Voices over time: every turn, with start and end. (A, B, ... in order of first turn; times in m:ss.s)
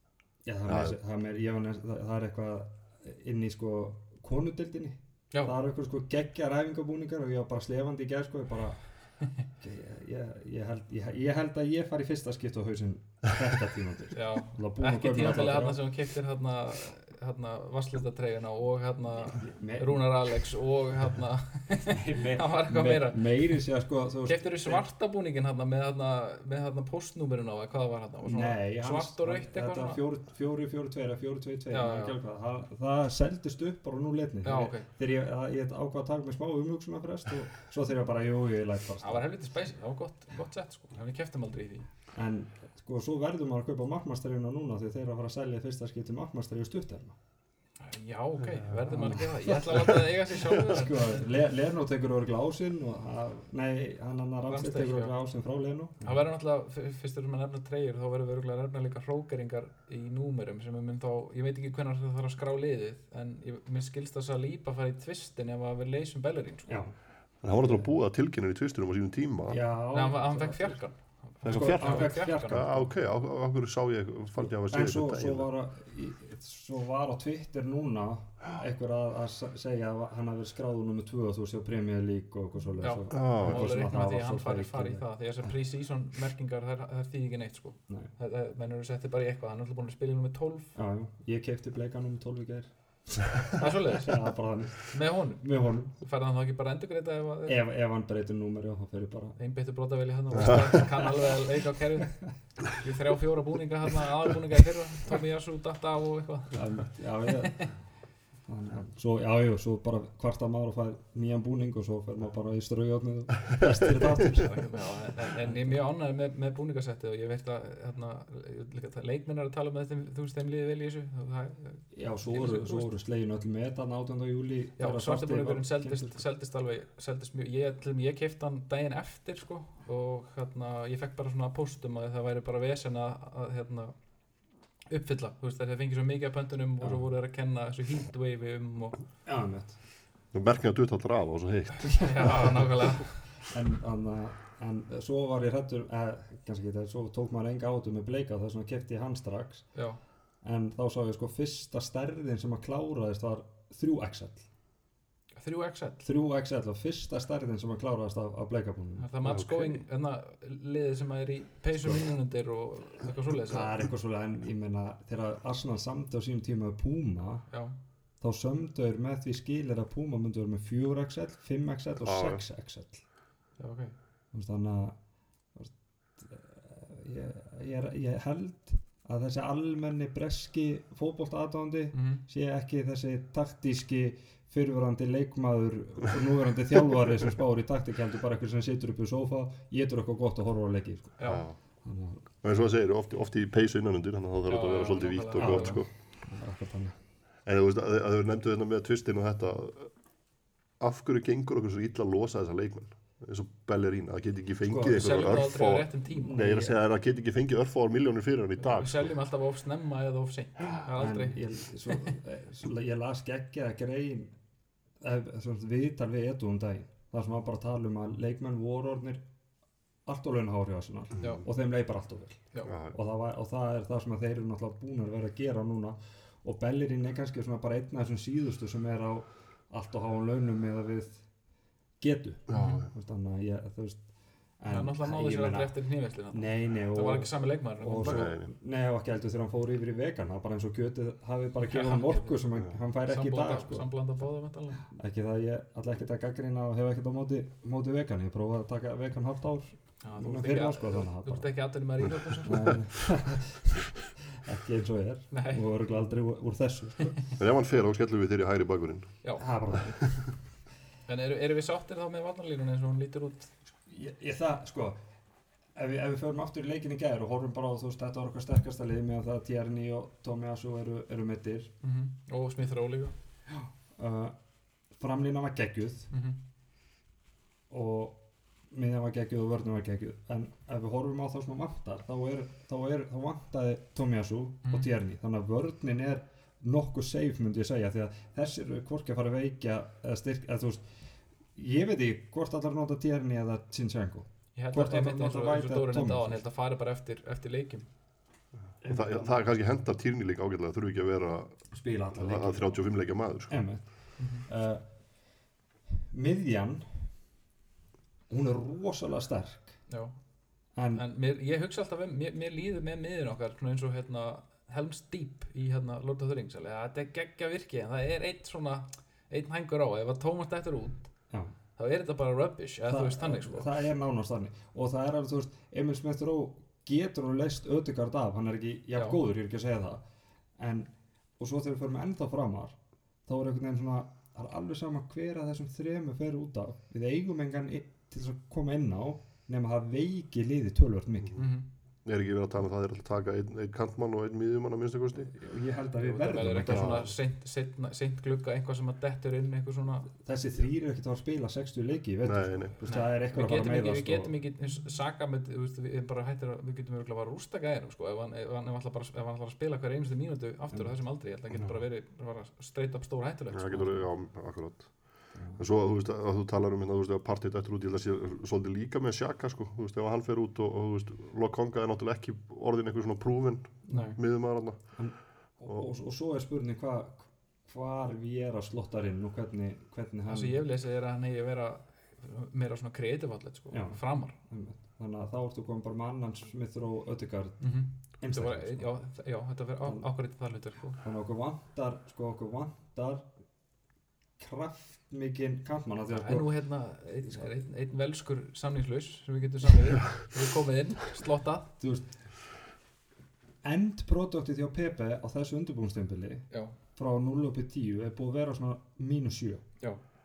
0:00.4-0:15.8 A
0:00.7-0:01.0 B
0:14.1-0:23.6 C
0:19.4-0:20.2 A
0:21.9-0:24.8 A
0:24.3-0:30.0 C
0:28.2-0:39.4 A
0:31.7-0:32.2 C
0:34.4-0:34.9 C
0:39.0-0:41.9 C
0:42.1-0:47.2 A
0:47.8-0:51.3 C
0:48.5-0:49.1 B
0:48.9-0:50.0 A
0:50.6-0:56.2 A
0:54.5-0:55.1 C
0:56.0-1:06.8 C
1:06.7-1:07.9 A
1:07.4-1:09.6 B
1:09.5-1:10.8 A
1:09.9-1:12.6 C
1:11.4-1:15.5 B
1:11.4-1:12.9 A
1:14.4-1:25.5 A
1:22.8-1:30.8 C
1:23.1-1:23.7 B
1:30.8-1:33.5 A
1:33.6-1:37.6 C
1:34.0-1:36.0 A
1:37.5-1:39.4 A
1:39.4-1:47.7 C
1:40.7-1:41.4 A
1:46.5-1:47.7 A
1:48.5-1:55.8 A
1:54.4-2:02.9 C
2:01.9-2:06.2 A
2:04.8-2:14.1 C
2:14.9-2:19.0 C
2:16.8-2:17.1 A
2:19.2-2:19.8 A
2:20.3-2:22.7 B
2:21.9-2:23.2 C
2:23.4-2:29.9 A
2:29.7-2:30.0 C
2:30.4-2:34.5 A
2:35.4-2:36.0 C
2:36.0-2:39.1 A
2:39.0-2:43.8 C
2:39.2-2:39.8 B
2:43.5-2:47.5 A
2:47.5-2:47.8 C
2:48.2-2:53.0 A
2:52.0-2:52.4 B
2:53.6-2:54.0 C
2:54.3-2:55.0 A
2:55.5-3:11.3 A
3:01.9-3:02.2 C
3:11.2-3:11.4 C
3:11.2-3:11.6 B
3:11.8-3:12.2 A
3:12.4-3:15.9 B
3:14.5-3:15.8 C
3:15.4-3:17.0 A
3:17.4-3:20.0 B
3:20.8-3:29.1 B
3:24.6-3:25.5 A
3:24.9-3:26.4 C
3:26.1-3:26.8 A
3:28.6-3:32.1 C
3:31.0-3:34.4 A
3:35.0-3:39.2 A
3:40.0-3:51.3 A
3:41.2-3:41.4 C
3:42.6-3:43.0 B
3:52.0-4:03.9 A
3:52.5-3:52.9 B
3:52.5-3:52.8 C
3:54.7-3:58.3 C
3:58.0-3:58.5 B
4:01.7-4:04.8 C
4:04.9-4:11.6 A
4:10.0-4:12.9 C
4:12.5-4:17.2 A
4:15.3-4:15.6 C
4:17.4-4:19.8 B
4:19.2-4:19.5 C
4:19.4-4:20.4 A
4:21.1-4:23.5 C
4:23.9-4:25.0 A
4:25.7-4:31.7 A
4:31.8-4:33.2 C
4:33.5-4:34.4 A
4:34.9-4:36.1 A
4:36.1-4:36.4 C
4:37.7-4:56.4 A
4:44.6-4:44.9 C
4:54.6-4:57.9 C
4:58.7-5:03.6 B
4:58.8-4:59.4 A
5:01.7-5:05.0 A
5:04.2-5:04.5 C
5:05.9-5:07.2 A
5:08.3-5:09.9 A
5:09.9-5:21.2 C
5:10.7-5:11.0 A
5:21.8-5:23.7 C
5:22.9-5:30.0 A
5:30.6-5:41.4 A
5:41.4-5:41.7 C
5:42.0-5:45.3 B
5:45.1-5:47.1 A
5:46.0-5:50.1 C
5:46.7-5:47.1 B
5:50.1-5:54.3 A
5:52.2-5:52.8 B
5:52.8-6:04.1 C
6:03.5-6:15.8 B
6:05.4-6:05.6 A
6:13.9-6:20.6 A
6:13.9-6:14.2 C
6:20.3-6:24.4 C
6:23.7-6:29.0 A
6:27.6-6:31.0 C
6:29.8-6:30.1 A
6:30.9-6:33.3 A
6:34.4-6:36.5 A
6:36.1-6:41.7 C
6:41.8-6:42.2 A
6:43.6-6:49.8 A
6:46.5-6:46.8 C